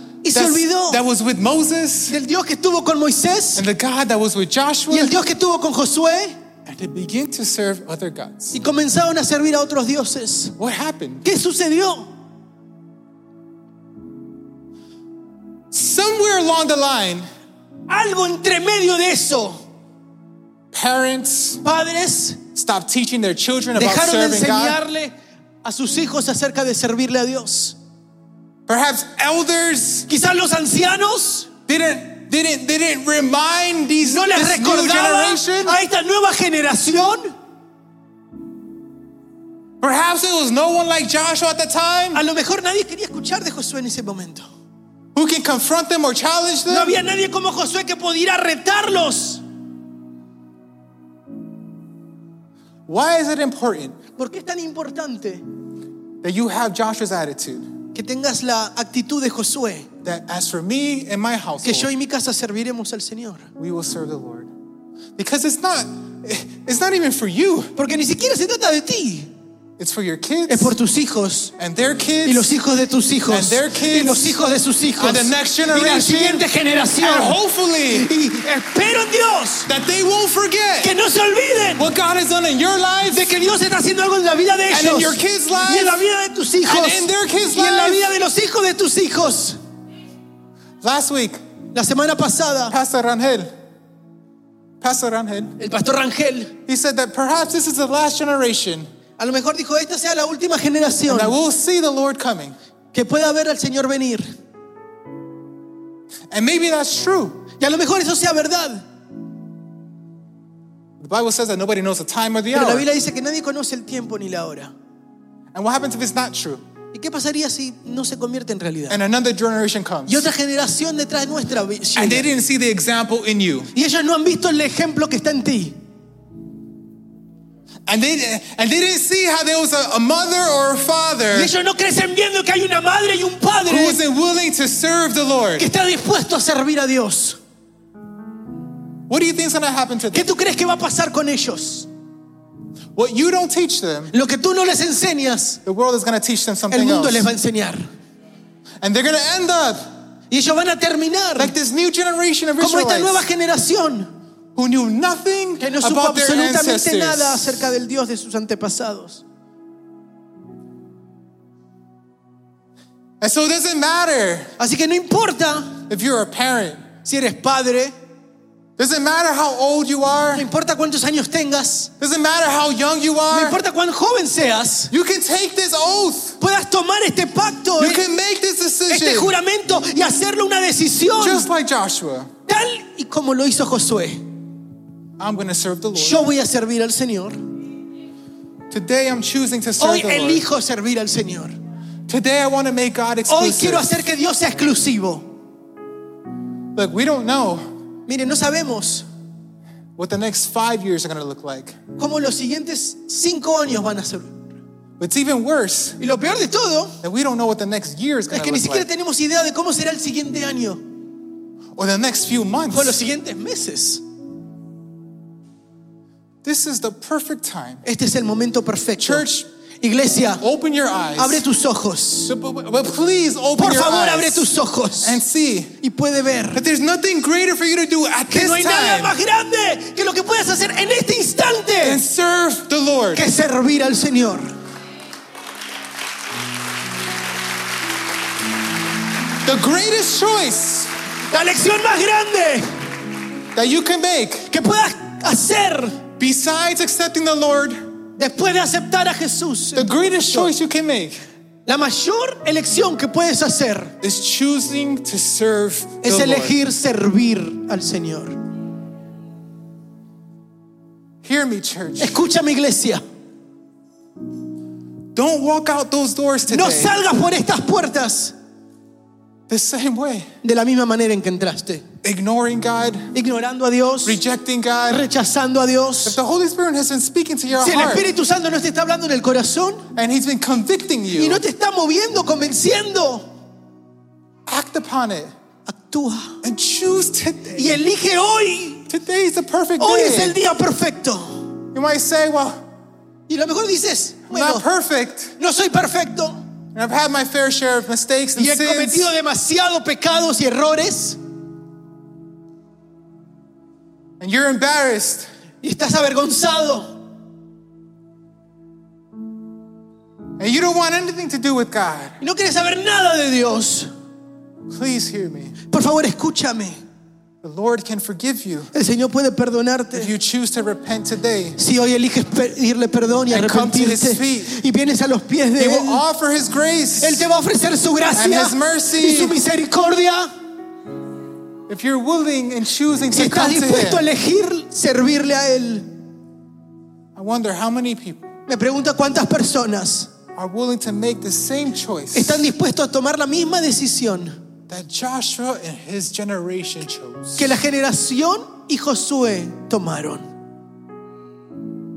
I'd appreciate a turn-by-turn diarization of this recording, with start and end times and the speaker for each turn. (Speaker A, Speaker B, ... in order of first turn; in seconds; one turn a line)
Speaker A: 0.2-1.0
Speaker B: 0.3-2.2
Speaker A: 2.1-3.6
Speaker B: 3.6-5.2
Speaker A: 4.9-6.4
Speaker B: 6.7-8.6
Speaker A: 8.5-10.6
Speaker B: 10.6-11.2
Speaker A: 11.2-12.1
Speaker B: 15.7-17.3
Speaker A: 17.9-19.6
Speaker B: 20.7-21.6
Speaker A: 21.6-22.4
Speaker B: 22.5-24.8
Speaker A: 23.8-27.8
Speaker B: 28.7-30.1
Speaker A: 30.1-31.5
Speaker B: 31.7-35.8
Speaker A: 34.0-37.4
Speaker B: 39.8-42.2
Speaker A: 42.1-44.5
Speaker B: 45.1-47.0
Speaker A: 46.7-49.4
Speaker B: 52.9-54.0
Speaker A: 54.2-55.4
Speaker B: 56.2-57.7
Speaker A: 57.9-59.9
Speaker B: 60.0-61.9
Speaker A: 61.6-63.5
Speaker B: 63.6-64.5
Speaker B: 65.2-67.8
Speaker A: 67.8-69.3
Speaker B: 69.8-70.8
Speaker A: 70.5-71.5
Speaker B: 71.6-72.5
Speaker A: 72.2-77.4
Speaker B: 73.3-74.4
Speaker B: 75.0-76.5
Speaker B: 77.0-78.1
Speaker A: 77.9-79.7
Speaker B: 79.7-80.9
Speaker A: 80.8-81.9
Speaker B: 81.8-83.3
Speaker A: 83.1-89.6
Speaker B: 84.7-86.0
Speaker B: 86.7-88.1
Speaker B: 90.8-91.4
Speaker A: 91.7-92.8
Speaker B: 92.7-93.5
Speaker B: 94.8-95.6
Speaker A: 95.6-96.5
Speaker B: 96.7-98.9
Speaker A: 99.2-101.4
Speaker B: 101.1-102.5
Speaker A: 102.9-104.2
Speaker B: 106.3-107.5
Speaker A: 107.6-108.8
Speaker B: 111.0-112.9
Speaker A: 112.5-114.7
Speaker B: 115.5-116.6
Speaker A: 116.9-119.0
Speaker B: 118.9-120.3
Speaker A: 120.1-122.3
Speaker B: 122.0-123.7
Speaker A: 123.7-125.8
Speaker B: 127.9-131.5
Speaker A: 131.3-134.0
Speaker B: 133.7-135.7
Speaker A: 135.6-137.4
Speaker B: 139.1-140.3
Speaker A: 140.1-141.9
Speaker B: 143.0-144.1
Speaker A: 144.1-145.6
Speaker B: 145.7-147.3
Speaker A: 146.7-147.9
Speaker B: 148.8-149.8
Speaker A: 150.3-151.6
Speaker B: 151.4-153.2
Speaker A: 152.6-154.1
Speaker B: 154.6-157.6
Speaker A: 155.6-159.2
Speaker B: 163.2-164.5
Speaker A: 164.6-165.8
Speaker B: 165.9-166.8
Speaker A: 167.0-168.0
Speaker B: 168.8-170.5
Speaker A: 170.3-171.9
Speaker B: 172.0-173.6
Speaker A: 173.3-174.9
Speaker B: 174.9-176.4
Speaker A: 176.4-178.1
Speaker B: 177.8-179.3
Speaker A: 178.9-181.5
Speaker B: 181.2-182.3
Speaker A: 182.5-184.3
Speaker B: 185.2-186.2
Speaker A: 186.0-187.4
Speaker B: 188.7-190.4
Speaker A: 189.8-191.6
Speaker B: 192.1-193.9
Speaker A: 193.3-195.3
Speaker B: 196.8-197.6
Speaker A: 198.1-199.1
Speaker B: 200.0-201.8
Speaker A: 202.0-204.6
Speaker B: 205.0-206.0
Speaker A: 206.0-207.0
Speaker B: 207.0-208.9
Speaker A: 208.3-210.8
Speaker B: 211.8-213.0
Speaker A: 212.7-214.0
Speaker B: 216.4-217.8
Speaker A: 217.8-219.3
Speaker B: 219.0-219.5
Speaker A: 219.8-220.4
Speaker B: 220.4-221.4
Speaker A: 221.2-222.3
Speaker B: 222.3-225.8
Speaker A: 223.6-225.2
Speaker A: 225.8-226.6
Speaker B: 226.5-229.2
Speaker A: 228.3-232.0
Speaker B: 231.8-233.2
Speaker A: 233.2-234.5
Speaker B: 239.4-240.9
Speaker A: 241.3-242.7
Speaker B: 243.6-244.5
Speaker A: 244.5-246.0
Speaker B: 246.2-247.8
Speaker A: 248.2-250.5
Speaker B: 249.8-251.2
Speaker A: 251.7-253.9
Speaker B: 254.0-256.6
Speaker A: 256.0-258.4
Speaker B: 261.2-262.2
Speaker A: 262.0-263.0
Speaker B: 265.1-266.9
Speaker A: 266.5-268.4
Speaker B: 269.5-270.3
Speaker A: 270.4-271.9
Speaker B: 272.0-273.1
Speaker A: 273.1-274.2
Speaker B: 274.1-275.1
Speaker A: 274.9-276.2
Speaker B: 276.0-278.1
Speaker A: 277.6-279.9
Speaker B: 279.9-281.4
Speaker A: 281.1-283.3
Speaker B: 284.5-285.3
Speaker A: 285.7-286.4
Speaker B: 286.4-287.8
Speaker A: 287.6-288.9
Speaker B: 288.9-290.4
Speaker A: 289.8-291.5
Speaker B: 291.7-292.6
Speaker A: 293.3-294.6
Speaker B: 294.3-295.4
Speaker A: 295.4-296.4
Speaker B: 296.7-299.1
Speaker A: 298.4-301.2
Speaker B: 304.2-305.3
Speaker A: 305.6-307.0
Speaker B: 310.4-312.2
Speaker A: 312.2-313.9
Speaker B: 314.7-315.6
Speaker A: 315.7-316.8
Speaker B: 317.4-318.7
Speaker A: 318.7-320.1
Speaker B: 319.9-321.6
Speaker A: 321.6-326.0
Speaker B: 323.3-324.6
Speaker B: 325.6-327.3
Speaker A: 327.0-330.3
Speaker B: 328.1-329.4
Speaker B: 331.7-334.1
Speaker A: 333.1-335.9
Speaker B: 337.1-338.3
Speaker A: 338.5-340.1
Speaker B: 340.4-342.5
Speaker A: 342.1-344.4
Speaker B: 344.7-347.5
Speaker A: 347.4-350.3